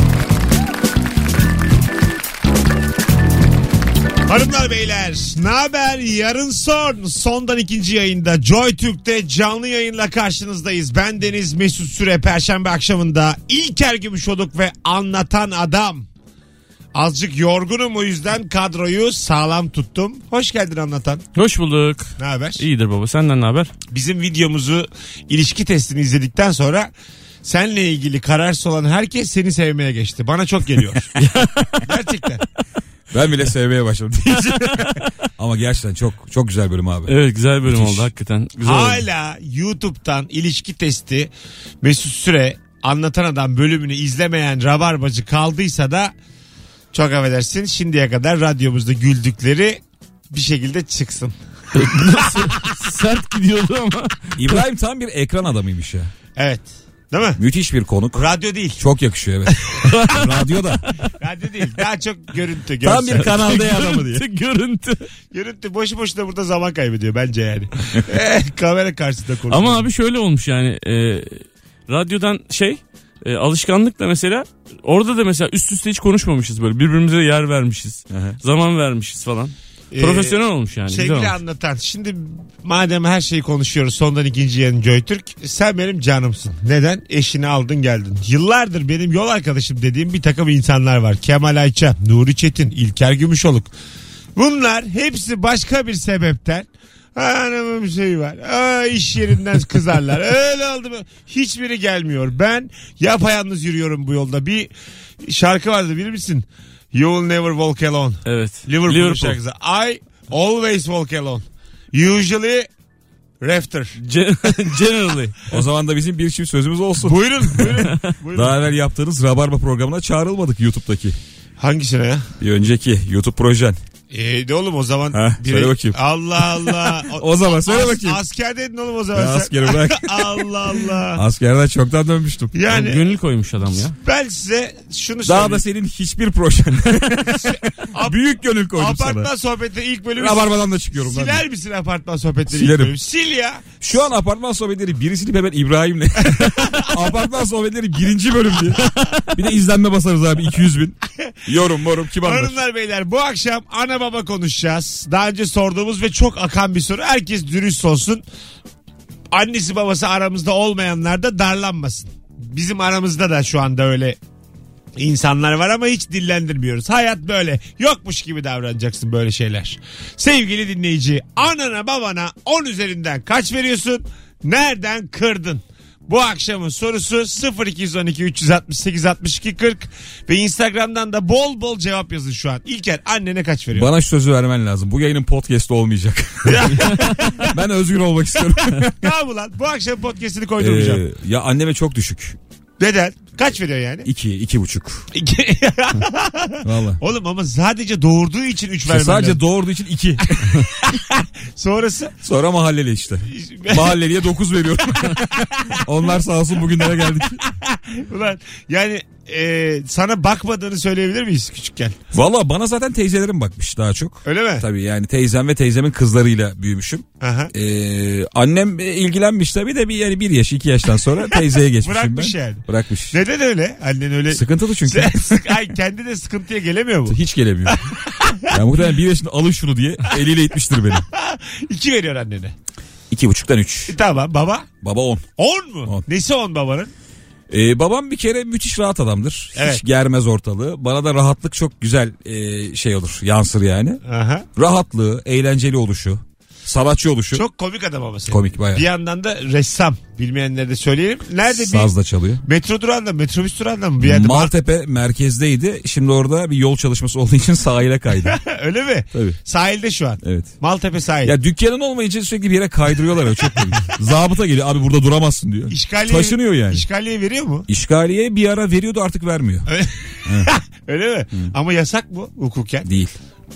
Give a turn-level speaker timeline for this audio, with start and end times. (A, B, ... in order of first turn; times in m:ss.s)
0:04.3-0:16.1 A
0:16.9-0:21.2 A
0:21.4-0:23.7 B
0:22.2-0:22.6 A
0:23.9-0:26.9 A
0:27.4-0:31.1 A
0:31.2-0:31.7 B
0:31.8-0:32.4 A
0:33.1-0:38.1 C
0:37.1-0:39.0 B
0:38.6-0:41.3 A
0:41.8-0:46.1 A
0:46.9-0:51.4 A
0:51.7-0:54.5 B
0:54.4-0:56.1 C
0:56.4-0:57.4 A
0:57.4-0:58.3 C
0:58.1-0:58.8 A
0:58.8-1:00.8 C
0:59.9-1:00.3 B
1:01.2-1:03.6 A
1:02.8-1:04.2 C
1:03.2-1:05.1 B
1:05.3-1:09.9 A
1:09.5-1:21.4 B
1:18.1-1:18.4 C
1:19.9-1:33.7 A
1:34.4-1:44.7 A
1:45.2-1:52.7 A
1:48.3-1:49.4 B
1:53.4-1:54.0 A
1:54.0-1:55.4 B
1:55.5-2:01.2 C
1:57.0-1:58.7 A
2:01.6-2:02.3 A
2:02.4-2:03.8 C
2:04.1-2:11.2 A
2:05.1-2:08.2 C
2:09.1-2:10.4 C
2:11.1-2:12.5 C
2:12.5-2:13.1 A
2:12.7-2:14.0 B
2:14.0-2:15.6 A
2:15.3-2:19.3 C
2:17.4-2:18.2 A
2:18.7-2:23.9 A
2:20.2-2:21.4 C
2:22.5-2:22.9 C
2:23.8-2:32.6 C
2:26.3-2:26.9 A
2:32.2-2:38.2 A
2:39.3-2:44.2 A
2:45.0-3:03.9 A
3:03.7-3:09.1 C
3:06.4-3:07.5 A
3:08.9-3:11.0 A
3:10.6-3:12.4 C
3:12.8-3:14.1 A
3:14.0-3:15.1 C
3:15.1-3:19.4 A
3:16.6-3:17.0 C
3:18.9-3:20.7 C
3:20.4-3:22.2 A
3:22.2-3:27.4 C
3:23.3-3:24.0 A
3:25.1-3:25.8 A
3:27.4-3:32.0 A
3:32.1-3:43.2 C
3:34.2-3:34.6 A
3:37.2-3:37.5 A
3:41.8-3:48.6 A
3:44.3-3:45.5 C
3:47.1-3:47.9 C
3:48.5-3:51.1 C
3:51.1-3:52.5 A
3:53.1-3:54.0 C
3:53.9-3:54.7 A
3:54.8-3:55.3 C
3:55.4-3:56.9 A
3:57.5-4:04.0 C
3:59.6-3:59.8 A
4:04.0-4:04.5 A
4:04.6-4:07.4 C
4:07.3-4:14.5 A
4:08.3-4:08.8 C
4:11.5-4:12.4 C
4:14.0-4:18.4 C
4:18.3-4:21.3 A
4:19.1-4:19.4 C
4:20.2-4:20.5 C
4:21.2-4:26.8 C
4:23.2-4:23.8 A
4:25.7-4:27.7 A
4:27.7-4:29.7 C
4:29.7-4:32.9 A
4:30.2-4:30.5 C
4:32.8-4:33.2 C